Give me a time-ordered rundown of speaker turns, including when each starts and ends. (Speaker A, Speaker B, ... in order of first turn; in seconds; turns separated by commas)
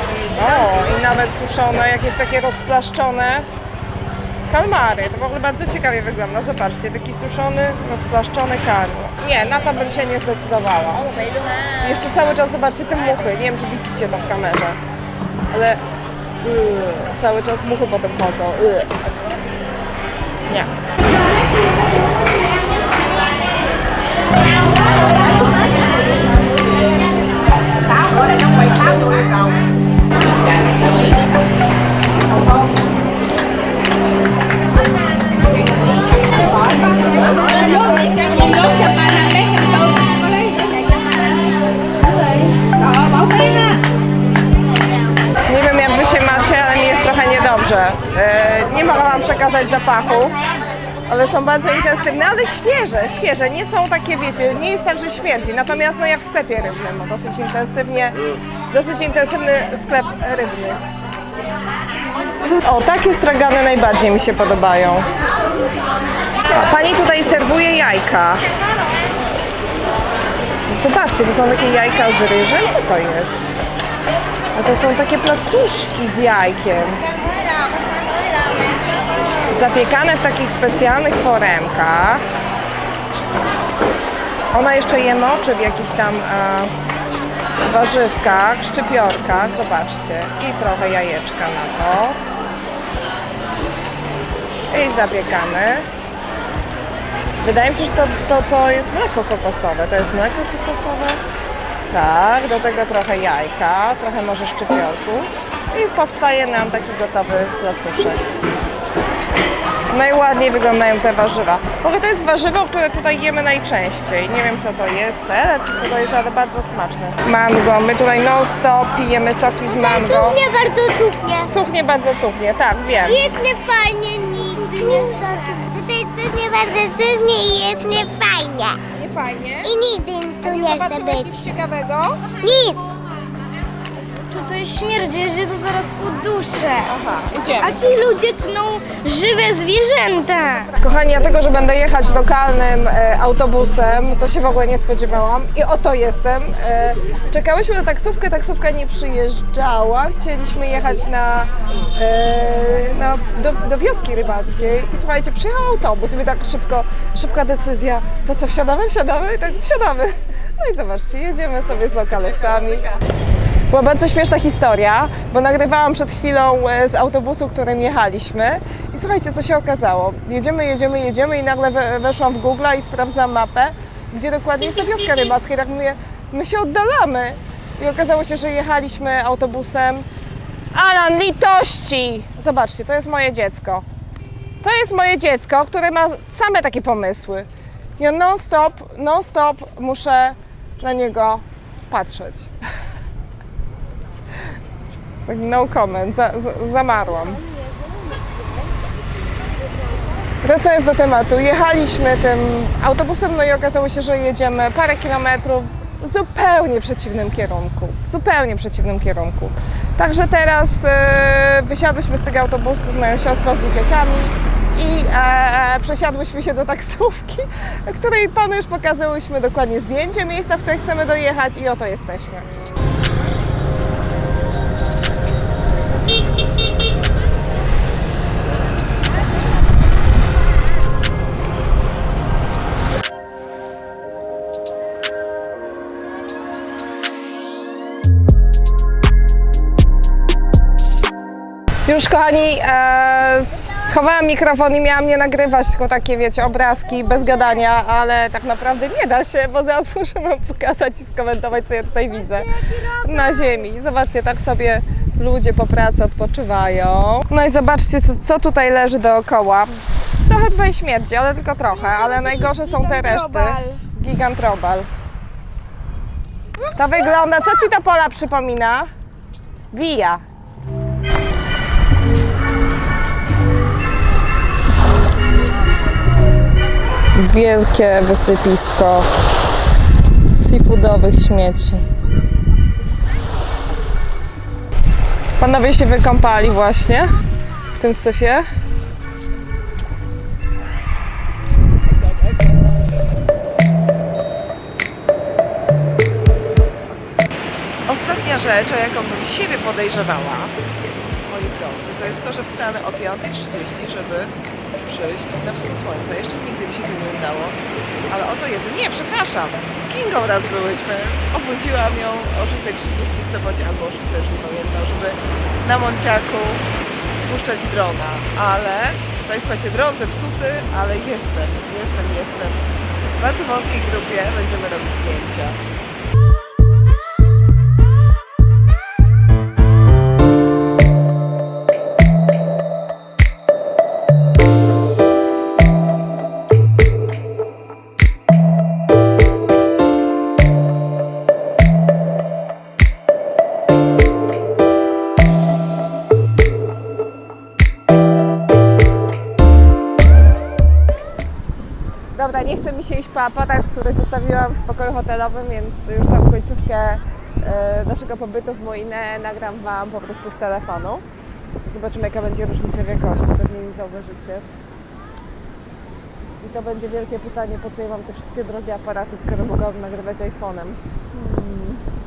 Speaker A: 0.3-3.5, Speaker A: 4.5-14.8, Speaker A: 15.5-15.8, Speaker A: 16.4-19.1, Speaker B: 25.0-26.4, Speaker B: 27.8-29.6, Speaker B: 30.2-31.2, Speaker B: 32.3-32.7, Speaker B: 35.3-41.6, Speaker B: 42.7-43.8, Speaker A: 45.5-50.4, Speaker A: 51.1-58.2, Speaker A: 58.7-60.8, Speaker A: 62.6-65.1, Speaker A: 66.5-68.5, Speaker A: 70.7-73.4, Speaker A: 74.5-77.0, Speaker A: 79.5-82.2, Speaker A: 84.5-86.7, Speaker A: 87.6-92.2, Speaker A: 94.7-95.9, Speaker A: 97.4-101.2, Speaker A: 101.9-108.2, Speaker A: 109.9-120.4, Speaker B: 119.7-121.5, Speaker A: 121.5-123.2, Speaker B: 123.0-128.8, Speaker A: 128.9-129.7, Speaker B: 129.6-131.4, Speaker A: 130.4-132.2, Speaker B: 132.4-133.0, Speaker C: 134.3-136.9, Speaker A: 136.8-137.8, Speaker C: 137.6-140.7, Speaker A: 140.8-162.9, Speaker A: 163.7-180.1, Speaker A: 180.7-183.8, Speaker A: 184.6-187.5, Speaker A: 188.0-192.5, Speaker A: 195.2-197.4, Speaker A: 200.4-222.5, Speaker A: 241.8-264.9, Speaker C: 261.9-263.8, Speaker A: 266.7-268.9, Speaker A: 269.7-270.2, Speaker A: 277.1-279.1, Speaker A: 280.3-281.8, Speaker A: 285.4-287.1, Speaker A: 287.8-288.5, Speaker A: 297.9-300.5, Speaker A: 301.2-307.6, Speaker A: 308.1-316.6, Speaker A: 317.2-322.6, Speaker A: 323.2-325.6, Speaker A: 352.1-361.0, Speaker A: 361.6-364.4, Speaker A: 366.4-371.8